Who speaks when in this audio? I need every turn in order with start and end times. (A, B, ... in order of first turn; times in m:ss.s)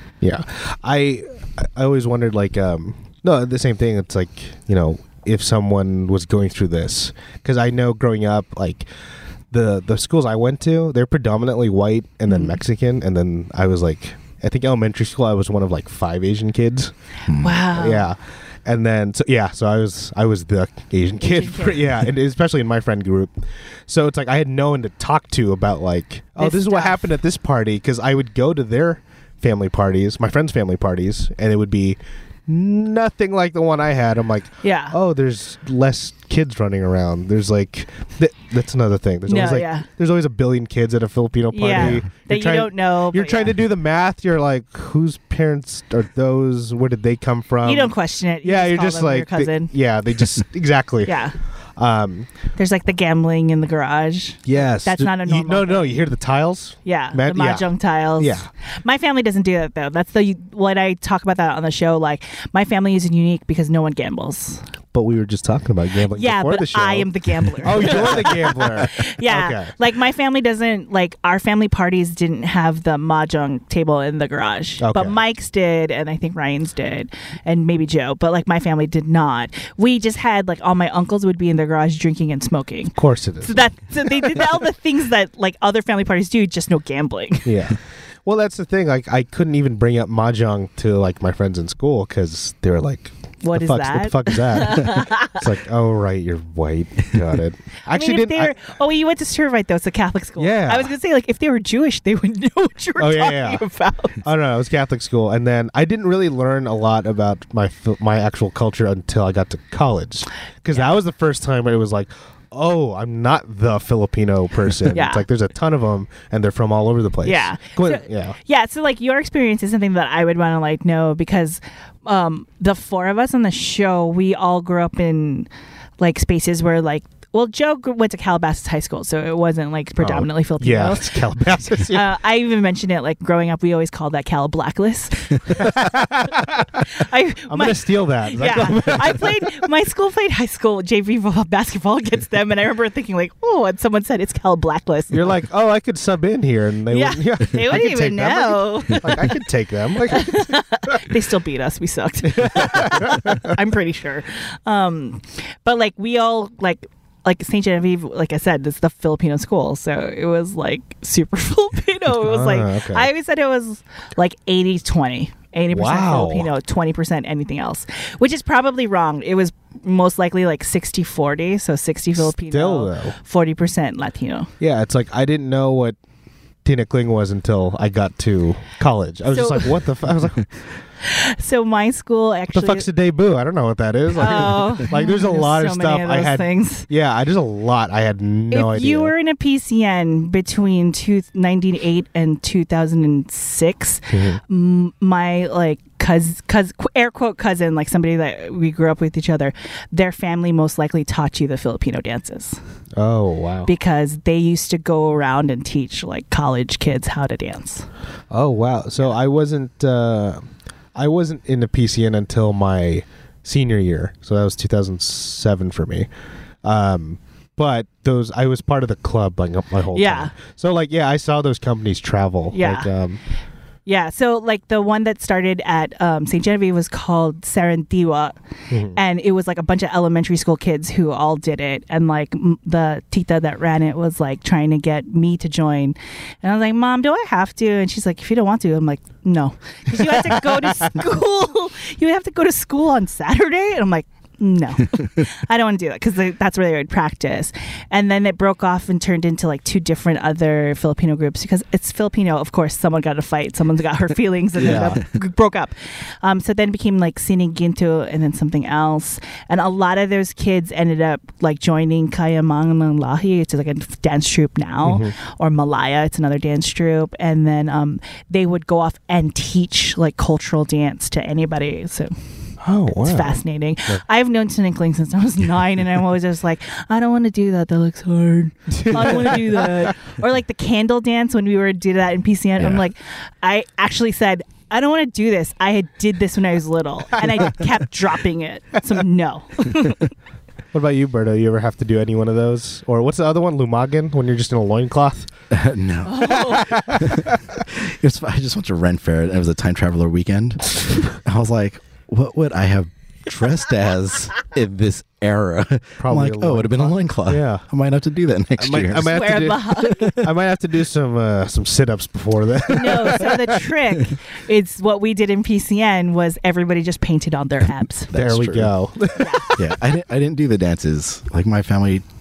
0:00.2-0:08.9 A
0:09.5-0:16.9 A
0:12.3-0:12.6 B
0:17.3-0:17.6 C
0:17.3-0:18.0 B
0:17.7-0:23.3 A
0:21.2-0:21.9 B
0:23.9-0:51.1 A
0:26.4-0:27.1 B
0:34.6-0:35.0 B
0:39.3-0:39.9 B
0:41.5-0:43.6 B
0:41.7-0:42.0 C
0:47.6-0:49.7 B
0:51.0-0:51.3 B
0:51.8-0:52.3 A
0:52.6-0:56.0 B
0:54.4-0:58.5 A
0:56.8-1:04.6 B
1:04.9-1:09.7 A
1:06.1-1:27.5 B
1:14.8-1:15.2 A
1:23.0-1:24.4 A
1:27.4-1:38.5 A
1:33.4-1:35.4 B
1:37.9-1:44.2 B
1:40.4-1:40.9 A
1:43.0-1:43.6 A
1:44.2-1:58.4 A
1:54.9-1:55.2 B
1:57.2-2:05.5 B
2:06.0-2:16.1 B
2:10.0-2:12.1 A
2:15.5-2:17.0 A
2:16.9-2:25.2 B
2:17.5-2:19.6 A
2:25.1-2:31.0 A
2:26.9-2:29.4 B
2:30.1-2:54.5 B
2:32.3-2:33.5 A
2:42.1-2:43.1 A
2:45.7-2:46.5 A
2:52.3-2:53.1 A
2:54.6-2:56.0 A
2:56.6-3:00.4 A
2:59.3-2:59.7 B
3:01.0-3:02.8 B
3:02.5-3:09.1 A
3:04.2-3:06.8 B
3:08.5-3:22.6 B
3:14.1-3:14.4 A
3:23.0-3:23.7 A
3:23.7-3:27.9 B
3:28.3-3:30.4 A
3:30.9-3:36.1 A
3:36.6-3:43.2 A
3:39.9-3:40.3 B
3:42.5-3:42.9 B
3:43.8-3:48.4 B
3:48.7-3:49.0 A
3:48.9-4:32.1 B
4:14.6-4:15.0 C
4:14.6-4:15.0 A
4:24.8-4:25.1 A
4:32.6-4:34.0 A
4:33.0-4:50.1 B
4:38.7-4:39.9 A
4:50.7-4:55.3 A
4:55.5-5:10.2 C
4:56.0-4:56.9 B
4:56.3-4:57.3 A
5:06.0-5:07.6 A
5:08.6-5:13.6 A
5:09.1-5:10.2 B
5:12.7-5:18.1 B
5:18.1-5:18.7 C
5:18.1-5:19.6 A
5:19.2-5:19.6 B
5:19.5-5:22.0 C